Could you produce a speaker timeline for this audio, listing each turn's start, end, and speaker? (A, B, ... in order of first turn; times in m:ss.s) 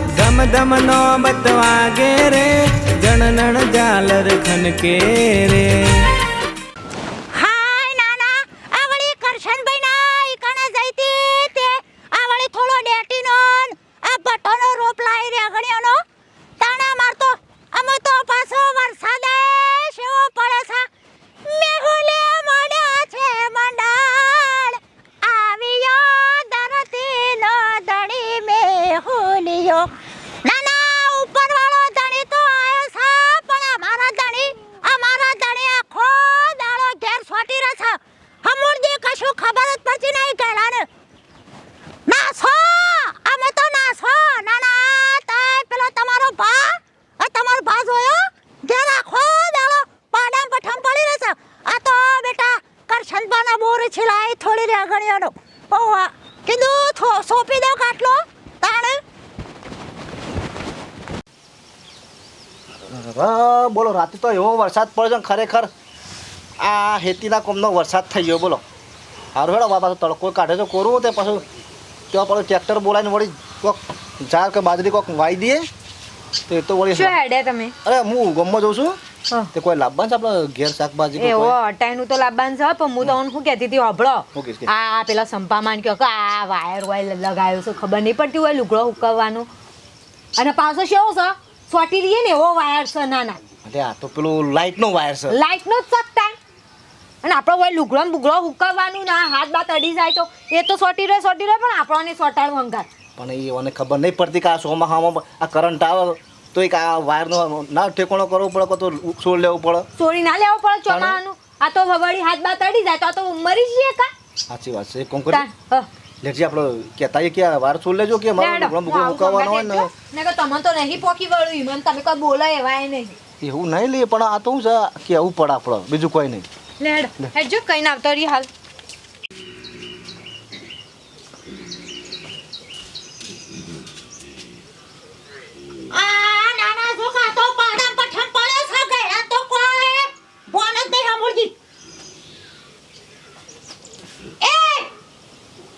0:00.2-0:06.0 A
0:07.3-0:16.0 B
0:16.6-0:20.9 B
0:21.4-0:40.9 B
0:42.1-0:59.0 B
1:02.9-1:05.7 C
1:06.6-1:08.6 C
1:09.3-1:11.4 C
1:12.1-1:15.6 C
1:16.5-1:17.2 C
1:16.9-1:17.7 D
1:17.8-1:19.0 C
1:19.5-1:21.6 C
1:21.2-1:29.5 D
1:24.3-1:24.7 C
1:30.4-1:33.4 D
1:33.6-1:35.4 C
1:35.3-1:36.4 D
1:37.2-1:42.8 D
1:43.2-1:49.9 C
1:50.0-1:54.1 D
1:50.9-1:51.2 C
1:54.5-1:55.4 C
1:55.3-1:55.9 D
1:56.2-1:59.9 C
1:58.4-2:03.2 D
2:03.4-2:06.4 C
2:06.8-2:08.5 D
2:15.9-2:21.5 B
2:24.4-2:24.9 B